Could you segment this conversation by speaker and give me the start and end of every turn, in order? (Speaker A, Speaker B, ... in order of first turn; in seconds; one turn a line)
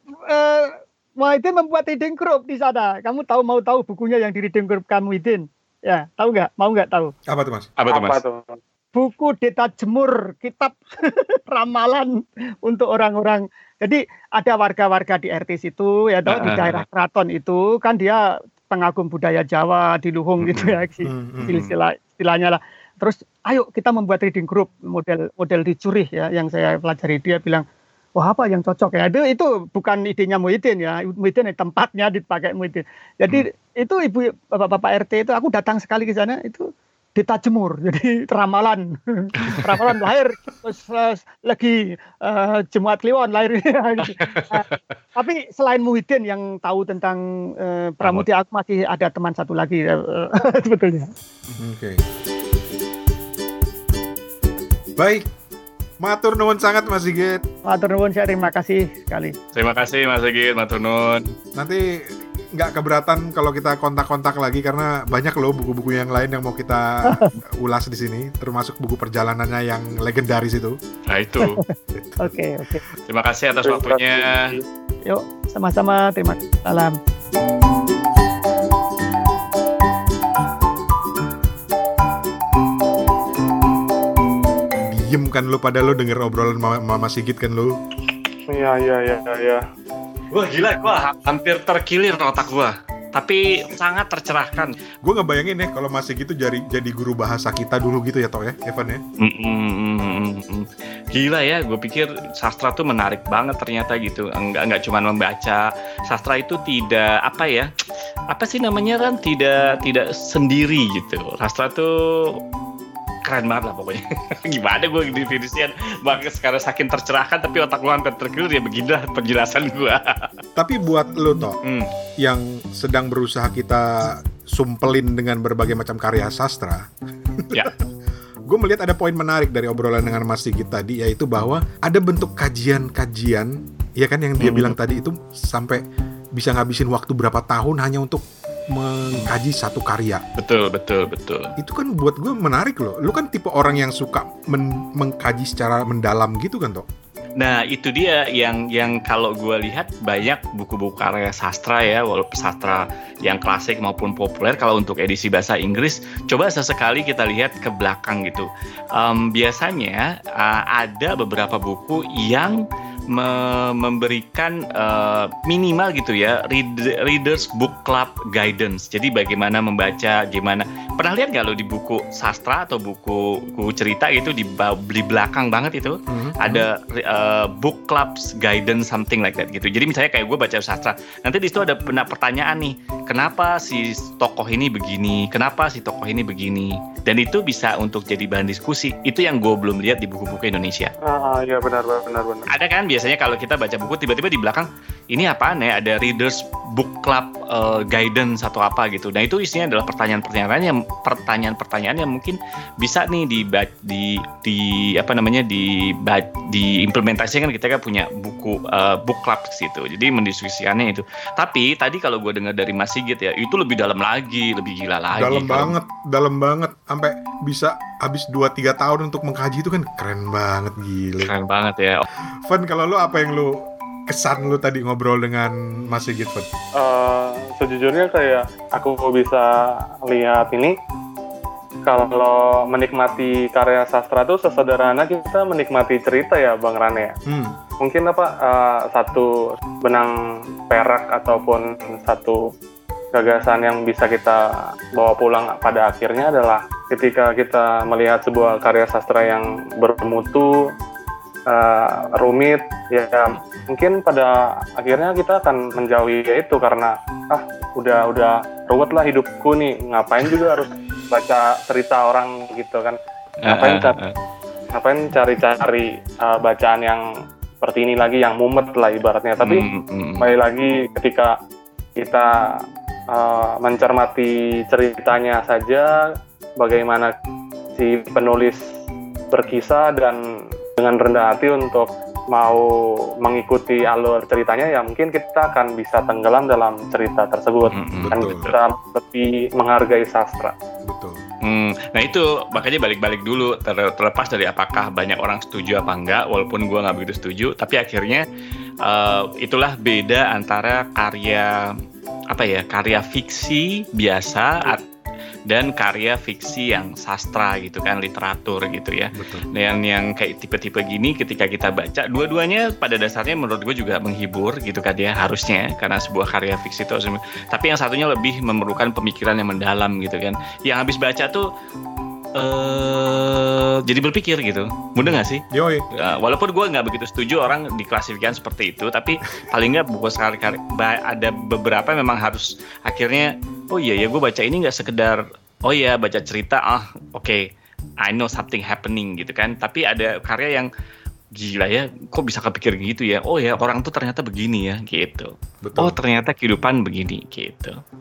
Speaker A: 0.2-7.1
Speaker B: 7.3-7.7
Speaker C: 7.8-8.2
Speaker D: 7.9-8.6
Speaker A: 8.9-27.6
Speaker C: 16.3-16.8
Speaker C: 20.4-20.7
Speaker B: 21.0-21.6
Speaker C: 21.4-21.7
Speaker A: 28.2-51.1
Speaker C: 39.5-39.8
Speaker C: 44.0-44.8
Speaker B: 51.6-52.0
Speaker B: 55.0-55.3
Speaker B: 56.0-57.4
Speaker A: 57.7-59.3
Speaker C: 59.5-61.3
Speaker B: 61.5-61.8
Speaker B: 62.5-70.8
Speaker C: 71.1-71.6
Speaker A: 71.4-72.8
Speaker C: 73.1-74.4
Speaker D: 73.6-74.6
Speaker A: 75.0-76.9
Speaker B: 84.9-87.8
Speaker D: 88.5-89.6
Speaker C: 90.3-94.7
Speaker B: 95.0-99.0
Speaker C: 99.2-107.7
Speaker C: 108.3-112.4
Speaker C: 113.2-120.4
Speaker B: 120.5-121.6
Speaker C: 121.6-121.9
Speaker B: 122.2-126.8
Speaker B: 127.4-127.7
Speaker B: 128.5-135.8
Speaker C: 134.4-134.7
Speaker B: 136.3-140.2
Speaker C: 140.4-141.5
Speaker B: 141.6-146.9
Speaker C: 147.4-190.9
Speaker B: 176.1-176.7
Speaker D: 191.1-192.5
Speaker C: 192.5-215.7
Speaker B: 215.1-221.3
Speaker C: 221.2-222.0
Speaker B: 222.4-226.5
Speaker D: 226.8-230.7
Speaker D: 231.9-237.2
Speaker B: 237.3-237.6
Speaker D: 237.8-240.2
Speaker D: 240.7-242.4
Speaker D: 243.1-250.6
Speaker D: 251.5-264.0
Speaker C: 263.4-264.1
Speaker D: 264.7-267.0
Speaker D: 267.6-269.6
Speaker C: 269.4-270.3
Speaker D: 270.2-271.4
Speaker D: 272.0-272.3
Speaker D: 273.1-275.9
Speaker D: 276.6-277.1
Speaker D: 277.8-278.6
Speaker D: 279.3-280.2
Speaker D: 280.8-282.7
Speaker D: 283.2-290.5
Speaker C: 287.7-288.4
Speaker B: 287.9-288.5
Speaker B: 290.9-291.2
Speaker C: 291.4-298.2
Speaker C: 298.8-301.7
Speaker C: 302.3-304.8
Speaker C: 305.5-321.5
Speaker B: 309.1-309.5
Speaker C: 322.4-325.4
Speaker B: 325.0-325.9
Speaker C: 325.9-337.4
Speaker C: 338.0-340.7
Speaker C: 341.4-347.8
Speaker B: 345.6-346.0